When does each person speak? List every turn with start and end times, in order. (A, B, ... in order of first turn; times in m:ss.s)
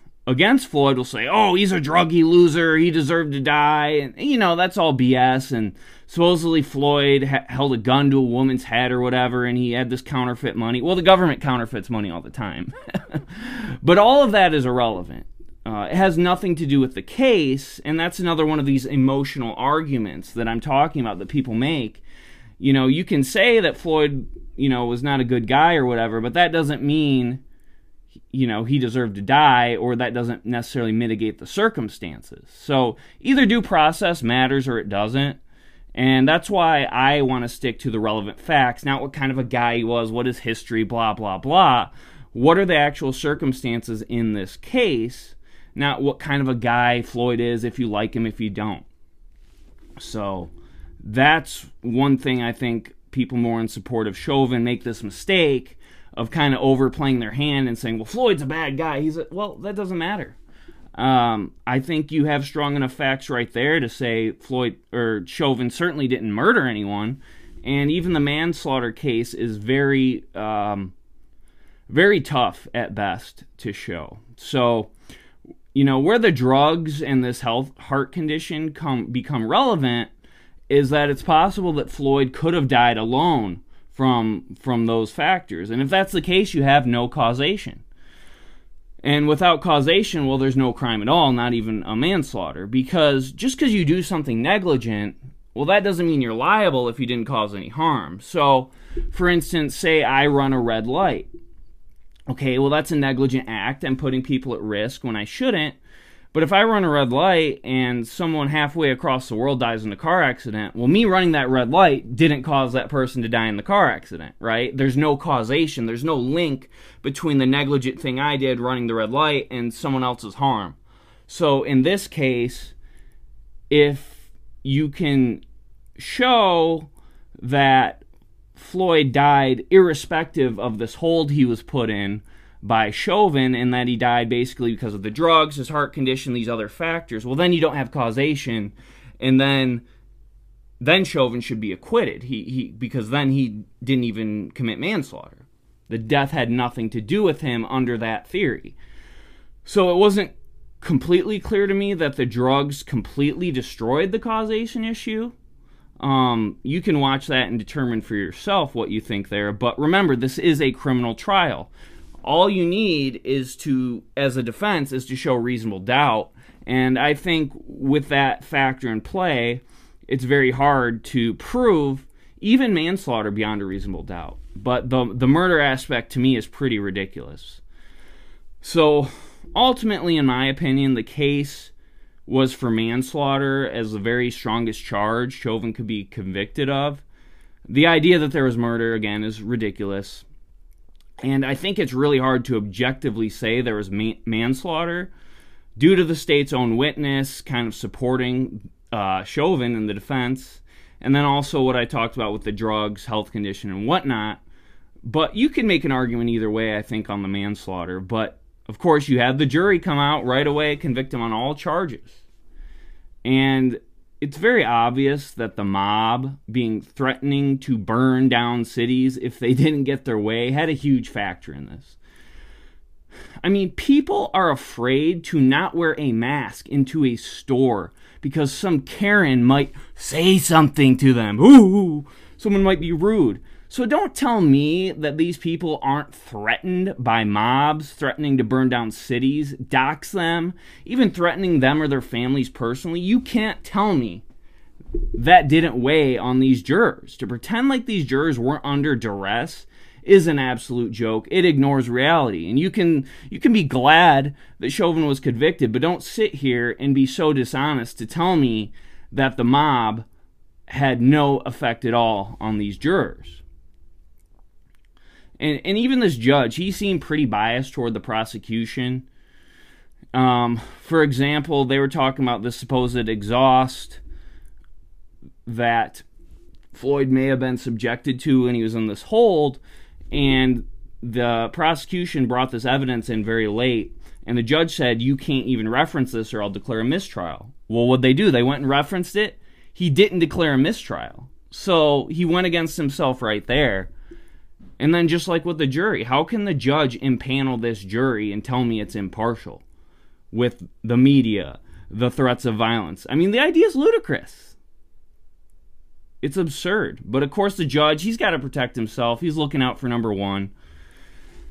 0:00.2-0:22.0 A
0:22.6-0:27.4 A
0:28.3-0:35.4 A
0:36.0-0:48.9 A
0:50.0-0:50.5 A
0:51.0-1:00.4 A
1:01.0-1:10.9 A
1:11.9-1:14.9 A
1:15.7-1:20.1 A
1:20.7-1:27.8 A
1:29.0-1:41.3 A
1:42.3-1:45.8 A
1:46.3-2:00.8 A
2:01.3-2:02.8 A
2:03.7-2:05.4 A
2:06.0-2:08.0 A
2:08.5-2:19.8 A
2:20.8-2:28.8 A
2:29.6-2:35.4 A
2:36.0-2:41.7 A
2:42.2-2:57.6 A
2:58.6-3:01.7 A
3:02.2-3:07.0 A
3:07.7-3:10.2 A
3:11.2-3:15.1 A
3:15.8-3:24.4 A
3:25.0-3:32.2 A
3:33.2-3:42.0 A
3:43.4-4:04.2 A
4:05.1-4:20.0 A
4:20.7-4:23.4 A
4:25.4-4:29.0 A
4:30.1-4:34.0 A
4:35.5-4:36.0 A
4:36.7-4:39.6 A
4:40.1-4:53.9 A
4:54.8-4:59.6 A
5:00.3-5:04.6 A
5:06.2-5:10.5 A